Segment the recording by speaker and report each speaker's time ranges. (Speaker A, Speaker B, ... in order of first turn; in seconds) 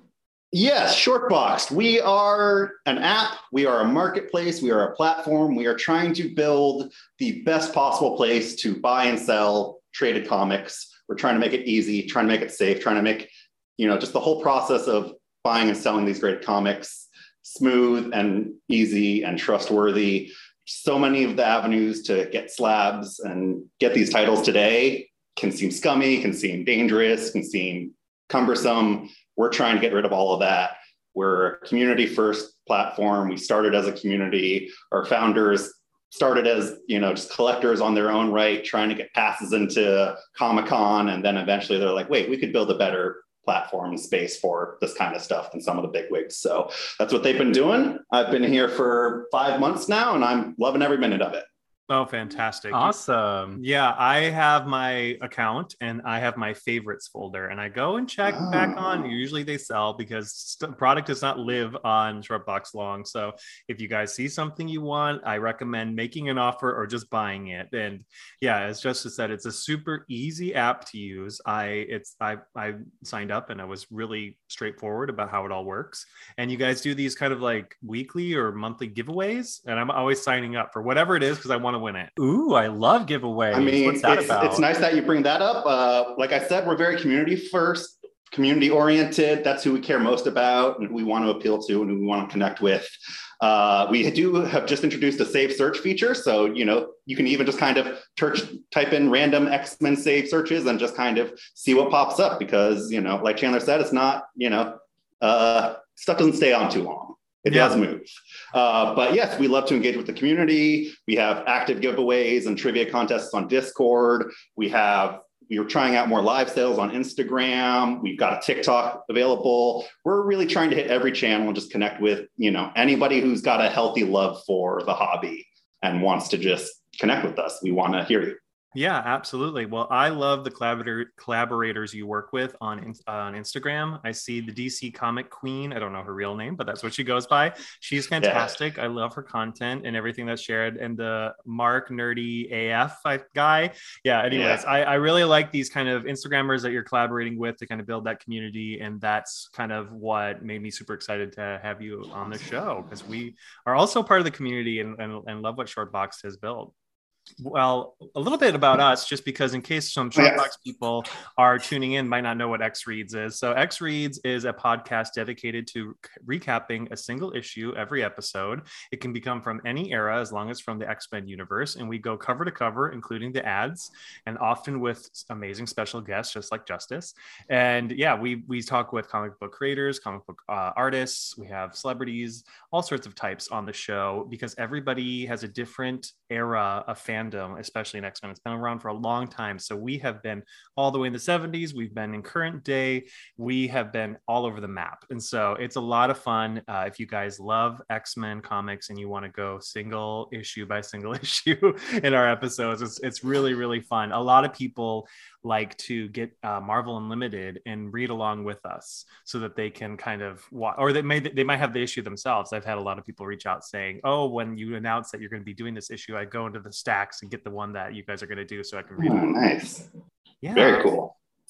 Speaker A: 0.5-51.5, 58.3-59.0, 83.5-128.4, 138.2-138.5, 144.3-144.7, 160.2-160.5, 219.0-219.9, 220.6-221.1
Speaker B: 51.9-53.0, 53.6-82.1, 107.5-107.8, 128.8-156.7, 157.4-219.4, 220.4-220.9
Speaker C: 52.7-53.6, 82.2-84.7